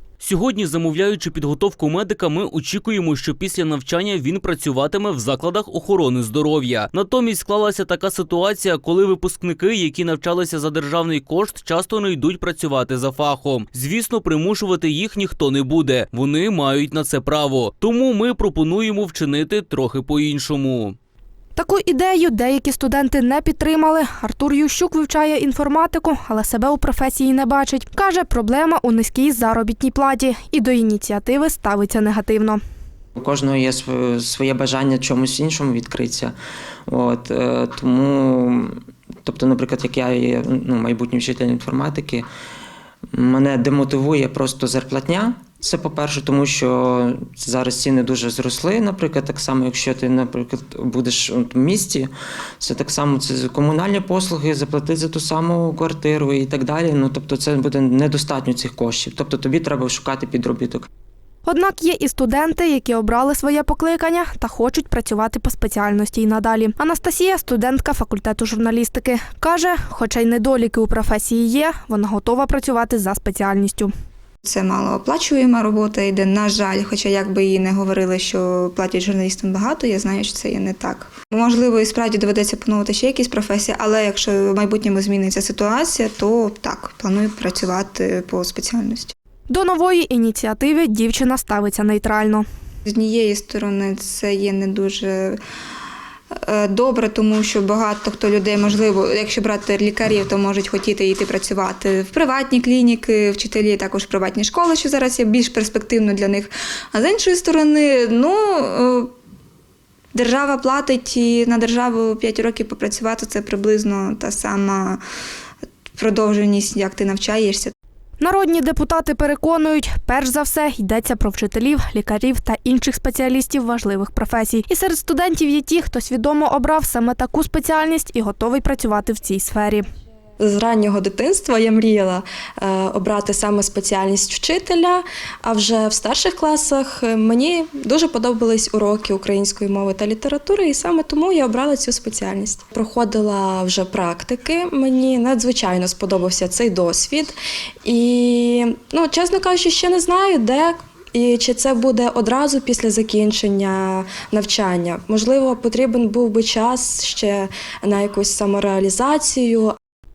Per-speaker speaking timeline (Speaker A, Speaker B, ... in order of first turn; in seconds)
Speaker A: 0.2-21.0
Speaker B: 21.6-32.6, 61.4-73.9, 89.5-92.4, 118.2-129.8
Speaker C: 33.1-36.3, 36.9-42.3, 43.1-60.9
Speaker D: 74.4-89.1, 92.9-95.4, 96.4-109.1, 110.1-115.0, 116.0-117.7
Speaker E: 130.4-159.7